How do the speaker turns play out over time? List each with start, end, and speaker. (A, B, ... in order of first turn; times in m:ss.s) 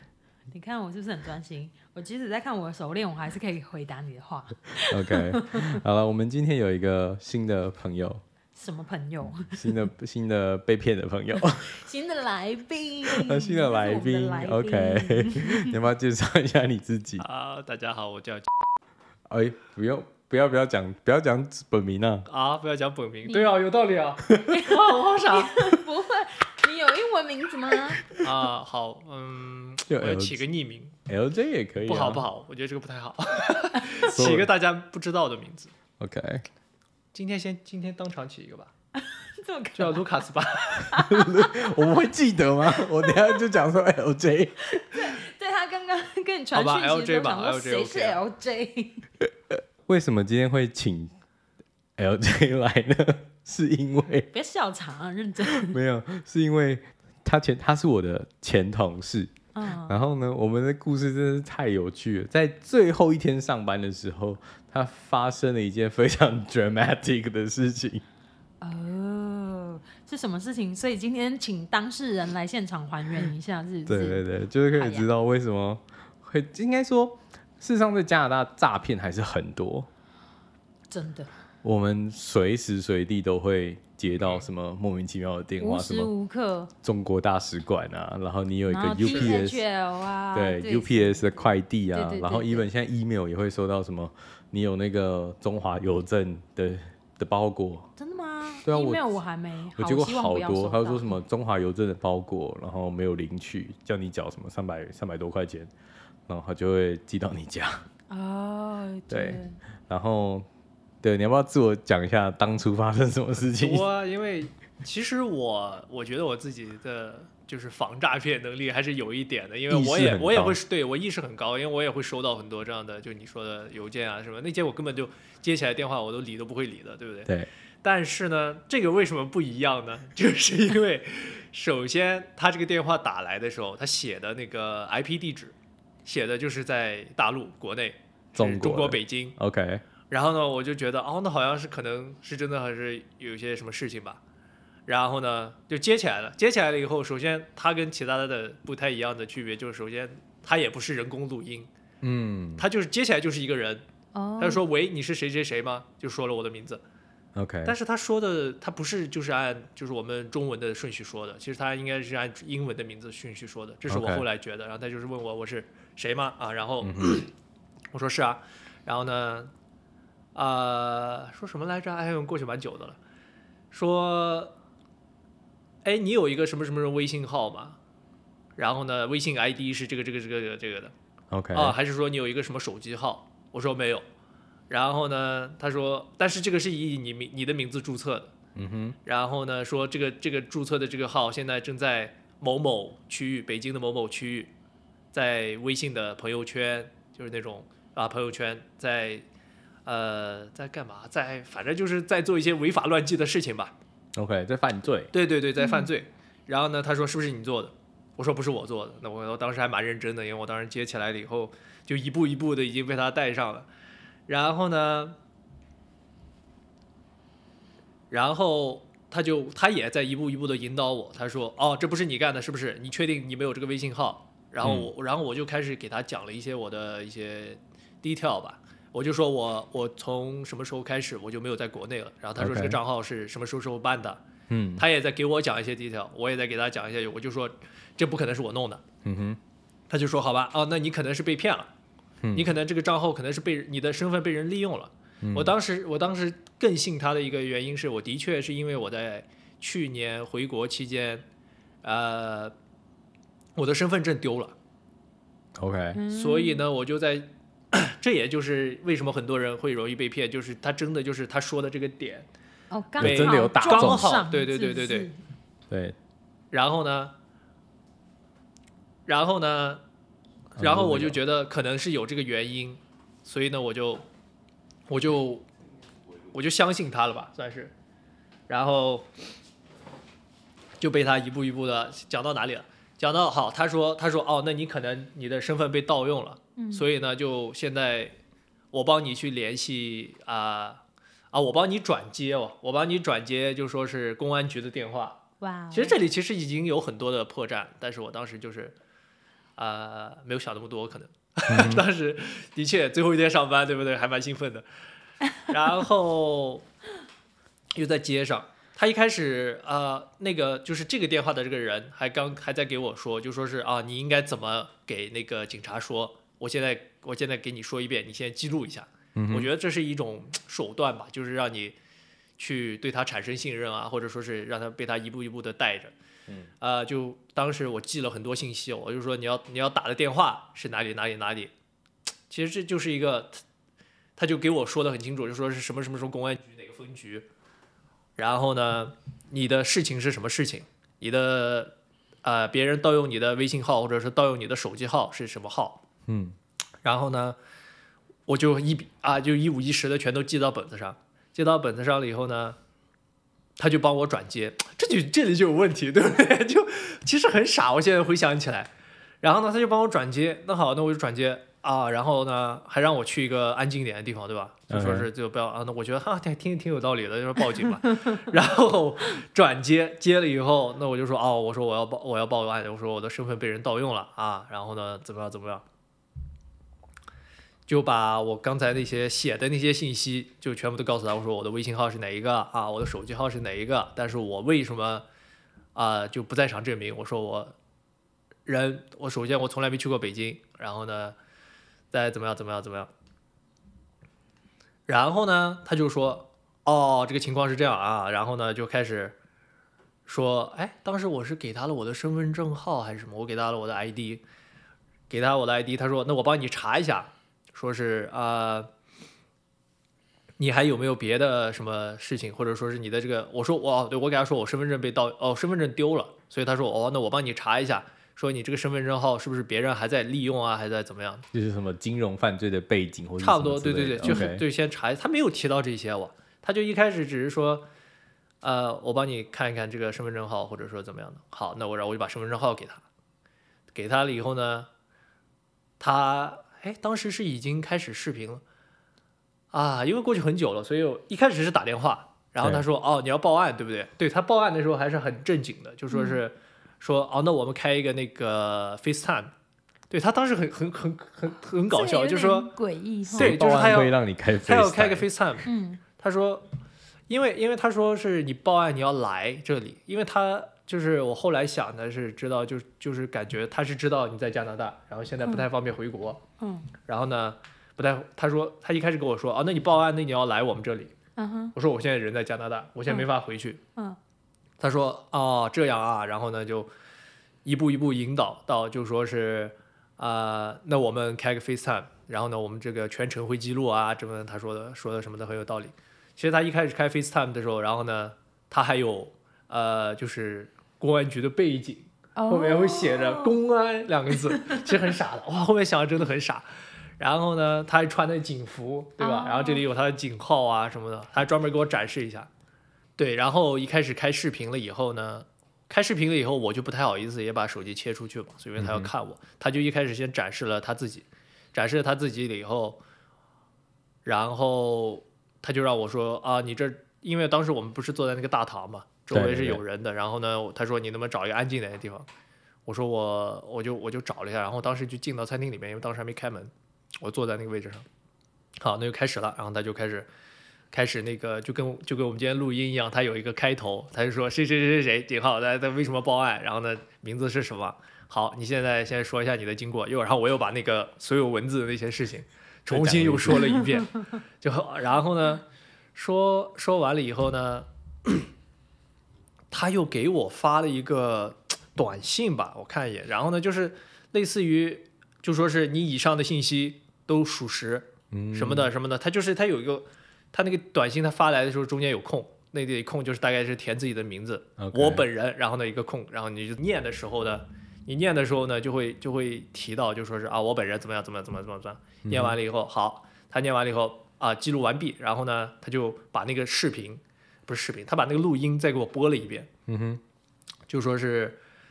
0:00.5-0:05.8 A
0:04.8-0:08.2 B
0:08.6-0:09.8 A
0:09.5-0:11.8 B
0:11.6-0:15.7 A
0:13.1-0:17.3 B
0:17.2-0:18.5 C
0:19.3-0:22.3 B
0:22.3-0:25.8 C
0:23.3-0:23.6 A
0:24.4-0:28.1 A
0:28.2-0:31.0 C
0:29.9-0:30.4 B
0:31.1-0:32.2 B
0:31.9-0:35.7 C
0:34.0-0:34.5 B
0:36.0-0:36.4 B
0:37.1-0:38.7 C
0:39.0-0:40.0 A
0:39.8-0:40.9 C
0:40.9-0:41.9 A
0:40.9-0:44.8 B
0:42.8-0:43.3 A
0:44.7-0:49.1 A
0:46.5-0:48.2 C
0:49.9-0:51.1 B
0:52.0-0:54.3 B
0:54.3-0:55.8 A
0:55.5-0:59.3 B
0:59.5-1:00.0 A
0:59.9-1:08.0 B
1:08.6-1:15.1 A
1:13.9-1:19.9 B
1:20.9-1:21.3 A
1:21.6-1:26.1 B
1:25.6-1:26.7 A
1:26.8-1:29.6 B
1:28.7-1:31.3 A
1:29.0-1:29.4 C
1:30.3-1:37.9 B
1:31.9-1:32.7 A
1:38.0-1:41.2 A
1:38.6-1:39.2 B
1:39.8-1:45.7 B
1:46.3-1:47.8 B
1:48.1-1:49.6 A
1:49.1-1:50.5 B
1:51.0-1:53.9 B
1:53.6-2:07.3 C
1:59.7-2:00.6 B
2:07.8-2:19.4 C
2:18.4-2:19.8 B
2:20.1-2:24.2 C
2:24.9-2:31.7 C
2:32.0-2:32.7 B
2:32.6-2:33.8 C
2:34.2-2:34.6 A
2:34.4-2:36.8 C
2:37.4-2:37.8 B
2:37.6-2:47.3 C
2:43.9-2:44.2 B
2:46.8-2:47.2 B
2:47.9-2:49.5 C
2:50.3-2:53.0 C
2:53.7-2:54.5 C
2:55.8-2:57.8 C
2:58.6-3:00.9 C
3:01.3-3:01.8 B
3:01.5-3:04.0 C
3:04.7-3:08.3 C
3:08.6-3:09.0 B
3:09.0-3:14.5 C
3:15.1-3:19.3 C
3:19.8-3:23.7 C
3:24.2-3:25.1 B
3:25.1-3:33.7 C
3:25.6-3:25.9 A
3:34.3-3:35.2 C
3:38.1-3:54.2 C
3:44.6-3:44.9 B
3:52.4-3:52.8 B
3:54.5-3:54.8 B
3:54.8-3:58.8 C
3:59.0-3:59.4 B
3:59.9-4:01.7 C
4:02.2-4:02.5 B
4:02.3-4:11.3 C
4:05.2-4:05.5 B
4:11.8-4:12.6 C
4:13.6-4:14.6 C
4:15.6-4:16.0 B
4:15.9-4:16.6 A
4:16.1-4:22.3 C
4:22.7-4:25.2 A
4:23.0-4:24.1 B
4:23.0-4:25.1 C
4:25.7-4:26.0 B
4:26.5-4:27.2 C
4:29.1-4:29.8 C
4:30.6-4:31.2 B
4:30.6-4:34.1 C
4:34.9-4:35.5 C
4:36.3-4:37.7 C
4:38.5-4:39.1 C
4:40.8-4:48.2 C
4:46.6-4:46.9 A
4:48.7-4:58.8 C
4:55.4-4:56.0 A
4:59.6-5:04.7 C
5:01.5-5:01.8 B
5:05.5-5:06.6 C
5:07.8-5:21.8 C
5:19.2-5:19.5 B
5:22.4-5:26.0 C
5:26.6-5:31.5 C
5:32.3-5:33.4 C
5:34.2-5:37.3 C
5:38.2-5:45.8 C
5:46.1-5:46.4 B
5:46.8-5:47.4 C
5:48.3-5:52.6 C
5:53.6-5:58.7 C
5:59.2-6:15.6 C
6:04.7-6:05.1 B
6:17.7-6:25.0 C
6:25.8-6:27.6 C
6:28.5-6:31.2 C
6:31.9-6:32.9 C
6:34.9-6:39.2 C
6:40.1-6:44.2 C
6:45.1-6:48.7 C
6:50.4-7:01.3 C
7:01.3-7:04.4 B
7:03.2-7:07.7 C
7:08.4-7:12.9 C
7:13.7-7:14.7 C
7:15.8-7:18.4 C
7:19.5-7:29.3 C
7:25.9-7:26.2 A
7:29.9-7:32.5 C
7:31.7-7:33.8 A
7:33.1-7:36.5 C
7:33.2-7:35.1 B
7:35.5-7:35.8 A
7:37.1-7:46.2 C
7:46.4-7:46.7 A
7:46.8-7:50.9 C
7:51.2-7:51.5 A
7:51.5-7:53.6 C
7:54.6-7:56.7 C
7:57.4-8:16.5 C
8:12.2-8:13.4 A
8:14.4-8:14.8 A
8:17.0-8:22.3 C
8:19.0-8:19.6 A
8:23.0-8:32.8 C
8:28.6-8:28.9 B
8:34.0-8:42.1 C
8:39.1-8:39.6 B
8:42.7-8:47.9 C
8:48.6-8:50.1 C
8:50.7-9:08.3 C
9:02.7-9:03.6 B
9:09.5-9:39.5 C
9:18.1-9:18.7 B
9:24.6-9:25.0 B
9:32.0-9:32.4 B
9:39.7-9:40.0 B
9:40.7-9:41.4 C